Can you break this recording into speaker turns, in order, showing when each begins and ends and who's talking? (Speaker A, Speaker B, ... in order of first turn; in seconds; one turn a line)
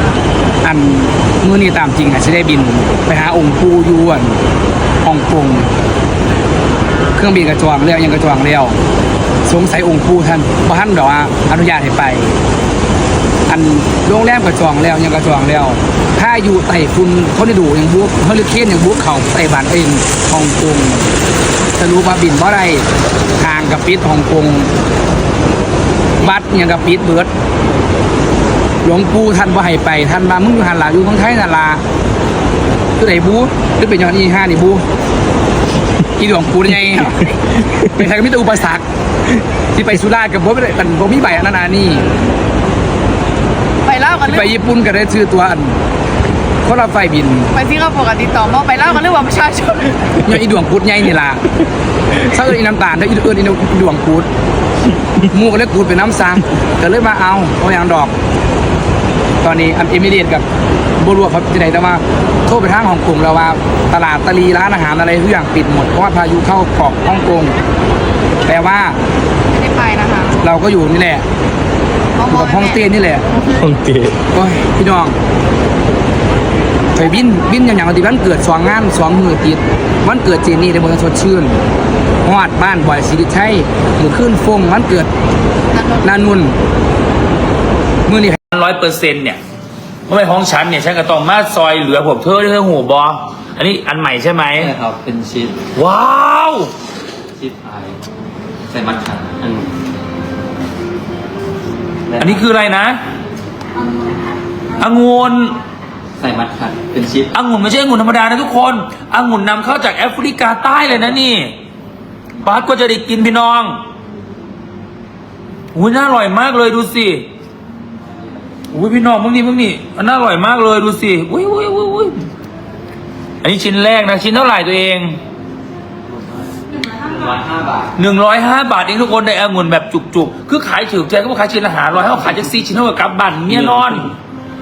Speaker A: 0.6-4.4
Speaker A: 5.0-5.7
Speaker A: 7.1-8.8
Speaker A: 9.4-12.4
Speaker A: 13.5-21.1
Speaker A: 21.8-22.9
Speaker A: 23.4-24.7
Speaker A: 26.2-27.3
Speaker A: 28.8-31.8
Speaker A: 33.0-34.8
Speaker A: 36.1-38.8
Speaker A: 39.7-42.1
Speaker B: 43.8-44.5
Speaker A: 44.2-45.8
Speaker A: 46.6-47.5
Speaker B: 47.5-50.2
Speaker A: 50.2-51.4
Speaker A: 52.2-54.3
Speaker A: 55.2-58.1
Speaker A: 59.4-60.5
Speaker A: 61.0-67.6
Speaker A: 68.4-69.0
Speaker B: 69.5-70.4
Speaker A: 70.4-71.2
Speaker B: 72.1-72.8
Speaker A: 72.3-73.3
Speaker A: 74.3-75.2
Speaker A: 76.9-81.6
Speaker A: 82.2-85.1
Speaker B: 85.7-86.2
Speaker A: 86.0-86.5
Speaker A: 88.0-88.4
Speaker C: 88.5-89.4
Speaker C: 90.1-94.7
Speaker D: 94.6-95.6
Speaker C: 95.7-96.7
Speaker D: 97.3-98.0
Speaker D: 98.7-99.7
Speaker D: 102.1-102.4
Speaker C: 102.2-103.0
Speaker C: 104.8-105.6
Speaker D: 106.2-107.3
Speaker C: 107.3-111.5
Speaker C: 112.4-113.8
Speaker C: 115.7-117.2
Speaker C: 118.7-122.2
Speaker C: 123.4-125.2
Speaker D: 127.0-127.9
Speaker C: 128.0-134.1